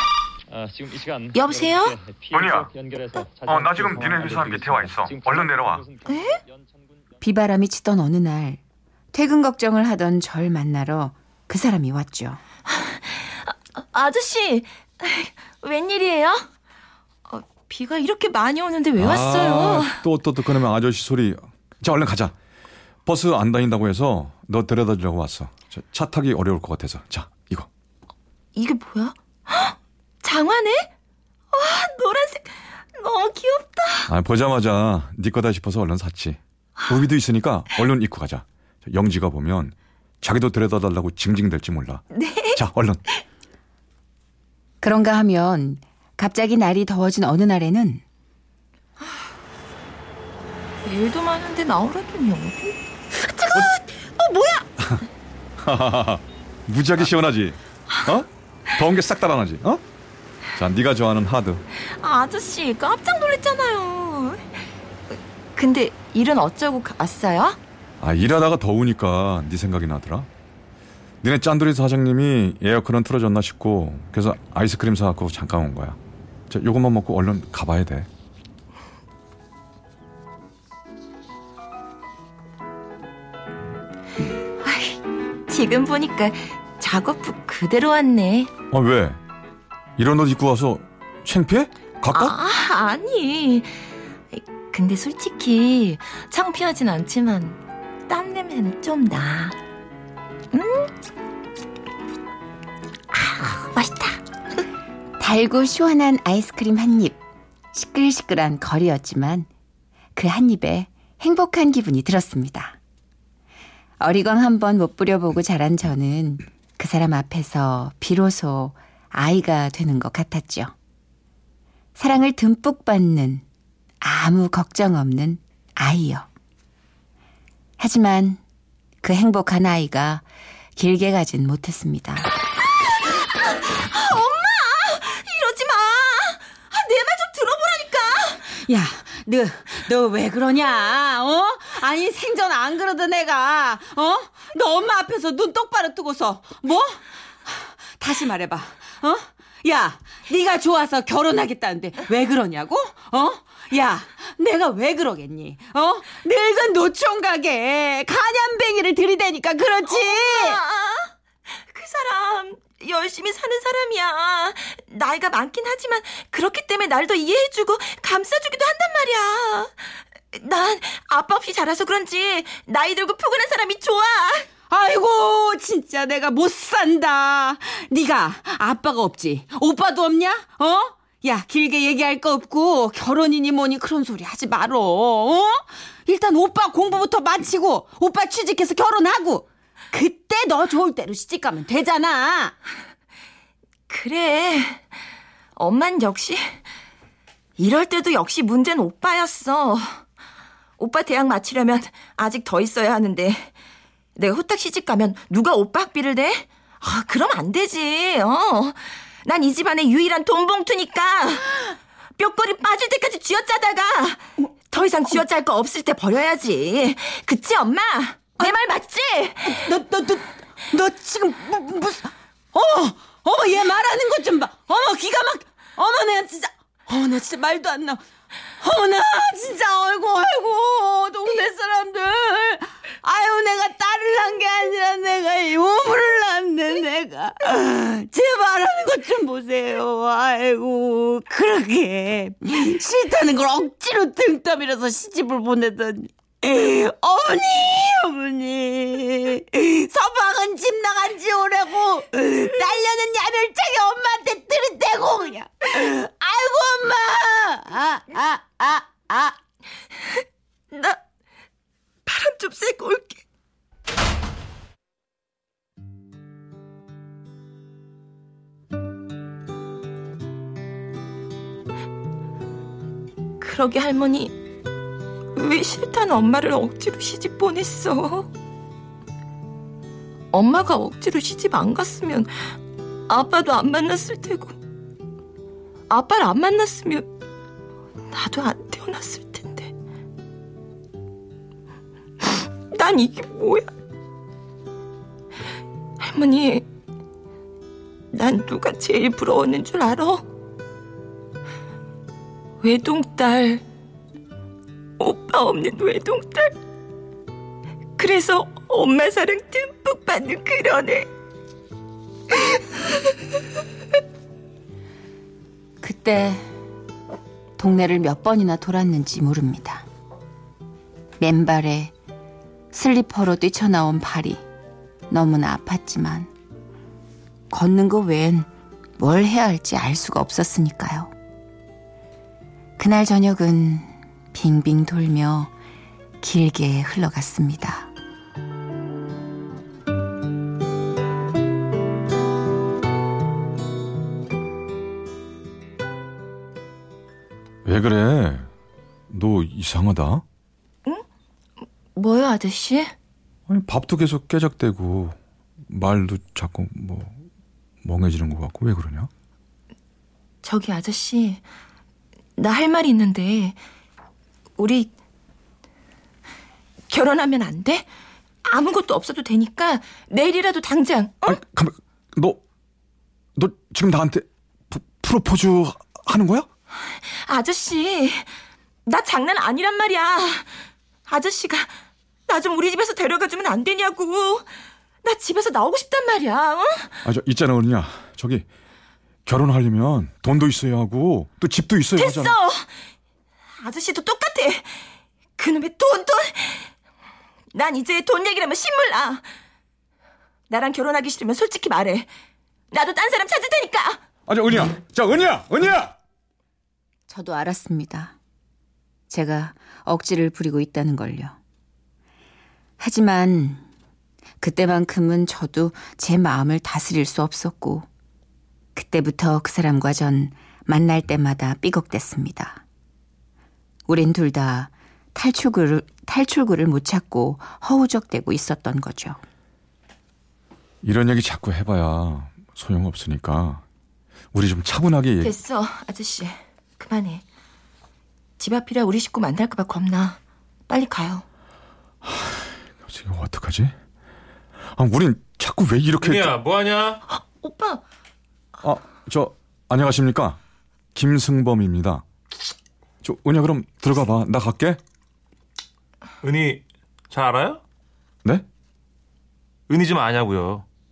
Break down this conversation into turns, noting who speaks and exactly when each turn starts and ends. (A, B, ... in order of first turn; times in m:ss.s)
0:00.5-0:07.0 A
0:01.3-0:02.0 B
0:02.3-0:02.7 C
0:03.4-0:05.9 C
0:06.1-0:06.4 B
0:07.2-0:08.6 D
0:09.1-0:12.4 D
0:12.7-0:16.5 B
0:17.3-0:20.0 B
0:19.0-0:22.4 C
0:23.1-0:27.7 C
0:28.6-0:30.9 B
0:31.5-0:34.1 B
0:34.1-0:43.0 C
0:42.1-0:42.6 B
0:44.8-0:48.0 D
0:50.8-0:54.7 B
0:55.6-0:59.8 C
1:00.6-1:01.6 C
1:01.8-1:04.6 B
1:05.5-1:07.6 B
1:08.0-1:10.3 C
1:11.2-1:18.1 C
1:24.6-1:28.5 B
1:28.7-1:29.2 C
1:30.0-1:32.4 C
1:32.1-1:39.6 B
1:40.5-1:40.9 B
1:43.1-1:44.2 B
1:45.2-1:47.2 D
1:47.7-1:49.5 D
1:50.2-1:52.8 D
1:54.0-2:00.7 D
2:02.0-2:03.4 D
2:04.0-2:06.3 D
2:07.8-2:08.4 D
2:09.0-2:10.2 D
2:10.8-2:12.3 D
2:12.8-2:18.5 B
2:18.5-2:40.6 D
2:39.8-2:49.8 B
2:50.3-2:54.5 B
2:54.7-3:12.5 D
3:13.9-3:14.9 B
3:15.6-3:16.6 B
3:17.6-3:20.0 B
3:20.8-3:23.5 B
3:24.2-3:39.6 B
3:39.4-3:48.0 D
3:48.6-4:19.4 D
4:20.7-4:21.0 B
4:22.1-4:23.2 B
4:33.4-4:34.4 B
4:35.3-4:38.3 B
4:40.3-4:42.5 B
4:43.1-4:44.6 B
4:45.9-4:47.1 B
4:48.1-4:49.7 B
4:52.2-4:53.7 B
4:56.0-4:56.7 B
4:58.1-5:00.2 B
5:02.6-5:03.6 B
5:05.0-5:06.5 B
5:08.0-5:11.1 B
5:12.3-5:13.0 B
5:15.8-5:16.5 D
5:17.6-5:19.8 D
5:21.2-5:21.9 D
5:22.7-5:24.4 D
5:25.1-5:26.3 D
5:27.5-5:28.5 D
5:29.0-5:31.1 D
5:32.8-5:35.5 D
5:36.2-5:37.9 D
5:47.6-5:48.5 C
5:49.1-5:50.2 C
5:51.9-5:52.9 B
5:53.5-5:55.2 C
5:55.7-5:57.2 C
5:57.8-5:59.1 C
6:00.4-6:01.4 B
6:02.4-6:03.6 B
6:04.6-6:04.9 B
6:06.9-6:07.9 B
6:08.4-6:11.4 B
6:11.2-6:12.4 C
6:13.4-6:16.5 C
6:16.9-6:18.3 B
6:18.8-6:21.7 B
6:22.3-6:24.5 B
6:25.0-6:26.9 B
6:27.0-6:28.5 C
6:29.2-6:32.4 C
6:32.0-6:32.7 B
6:33.6-6:36.7 B
6:37.5-6:39.2 B
6:40.5-6:42.1 B
6:42.7-6:44.0 B
6:44.3-6:45.9 C
6:47.1-6:48.1 D
6:49.1-6:51.4 D
6:52.8-6:53.6 D
6:54.4-6:57.9 D
6:58.8-7:02.6 D
7:03.9-7:09.2 D
7:10.8-7:13.6 C
7:14.3-7:15.4 C
7:15.2-7:17.2 B
7:18.4-7:21.2 B
7:22.0-7:23.7 C
7:24.7-7:26.4 C
7:26.0-7:27.0 E
7:27.1-7:27.8 B
7:28.6-7:30.4 C
7:31.0-7:32.0 C
7:33.0-7:34.8 C
7:36.2-7:37.6 E
7:39.7-7:40.7 E